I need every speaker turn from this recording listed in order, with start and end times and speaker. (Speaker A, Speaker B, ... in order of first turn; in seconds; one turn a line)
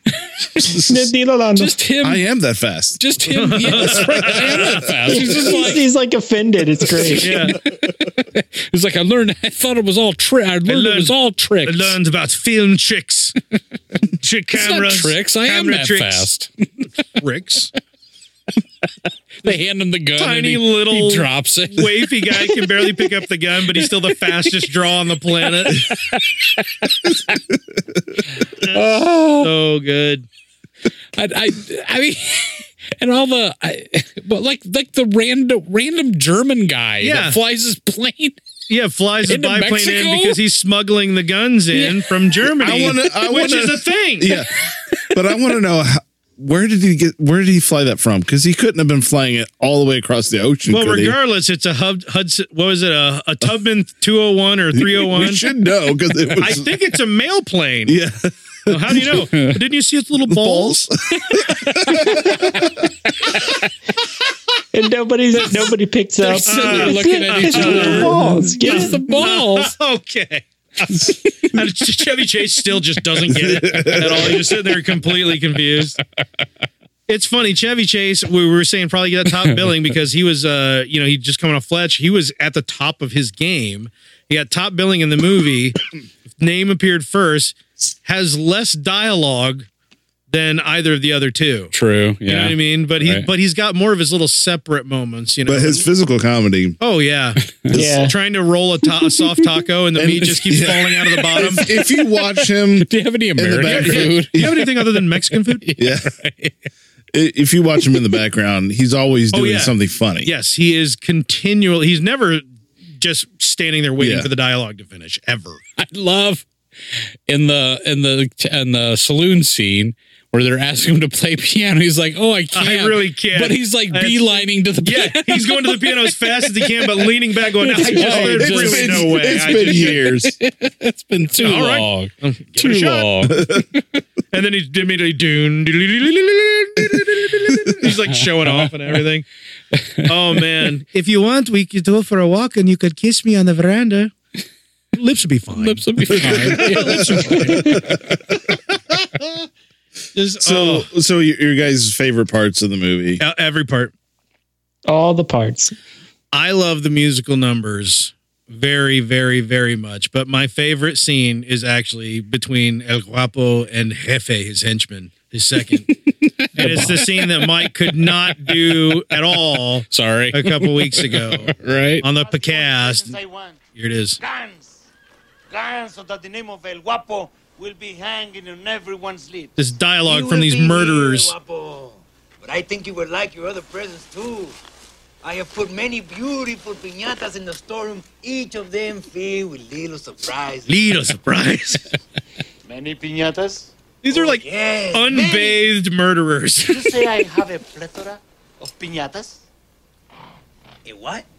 Speaker A: 0.2-0.8
Speaker B: 0.7-1.8
Speaker A: 1.6-2.2
Speaker C: 2.0-3.0
Speaker A: 3.0-5.9
Speaker D: 3.3-5.4
Speaker C: 3.9-4.8
Speaker B: 5.1-7.3
Speaker A: 6.9-11.9
Speaker D: 7.2-7.6
Speaker D: 10.7-13.4
Speaker D: 14.2-16.3
Speaker A: 14.5-16.9
Speaker D: 17.2-17.7
Speaker A: 19.4-23.1
Speaker D: 20.2-25.9
Speaker A: 23.7-24.5
Speaker A: 25.5-27.4
Speaker A: 28.4-29.5
Speaker D: 28.6-30.2
Speaker A: 31.1-38.4
Speaker D: 37.0-37.4
Speaker D: 38.7-44.4
Speaker A: 39.2-40.4
Speaker A: 41.7-42.1
Speaker C: 42.6-44.5
Speaker C: 45.1-51.1
Speaker D: 50.7-55.5
Speaker C: 54.7-56.7
Speaker D: 56.4-58.0
Speaker C: 57.9-59.2
Speaker D: 58.7-60.9
Speaker C: 60.3-62.7
Speaker A: 61.7-63.6
Speaker B: 64.7-69.0
Speaker A: 66.2-69.7
Speaker D: 66.4-76.0
Speaker A: 70.9-71.2
Speaker C: 73.3-74.5
Speaker D: 77.1-85.8
Speaker D: 86.4-89.7
Speaker D: 90.3-91.7
Speaker A: 91.7-93.3
Speaker D: 92.2-95.8
Speaker C: 95.5-96.8
Speaker D: 96.8-101.7
Speaker C: 97.7-98.0
Speaker B: 97.7-98.1
Speaker C: 100.0-104.5
Speaker A: 101.4-101.8
Speaker A: 102.8-106.5
Speaker D: 103.6-105.6
Speaker C: 105.8-106.1
Speaker C: 107.1-110.3
Speaker D: 109.3-112.4
Speaker D: 113.0-115.6
Speaker C: 114.0-114.3
Speaker A: 115.8-116.4
Speaker A: 117.3-133.8
Speaker D: 122.5-130.0
Speaker C: 127.9-130.3
Speaker D: 131.3-133.1
Speaker D: 134.3-139.2
Speaker A: 138.4-138.7
Speaker A: 139.7-140.1
Speaker D: 140.1-144.1
Speaker D: 144.9-147.8
Speaker A: 145.5-148.0
Speaker C: 146.3-148.0
Speaker D: 150.1-150.9
Speaker C: 150.4-153.2
Speaker D: 153.2-153.9
Speaker B: 154.9-155.7
Speaker D: 156.3-165.9
Speaker A: 165.9-169.2
Speaker D: 166.6-173.1
Speaker A: 169.9-172.1
Speaker E: 172.0-173.6
Speaker D: 173.8-174.2
Speaker E: 174.2-174.8
Speaker E: 175.5-184.6
Speaker D: 179.6-181.3
Speaker E: 185.2-190.8
Speaker D: 190.7-191.9
Speaker E: 192.7-195.6
Speaker D: 194.0-197.2
Speaker E: 196.6-199.4
Speaker E: 200.8-201.2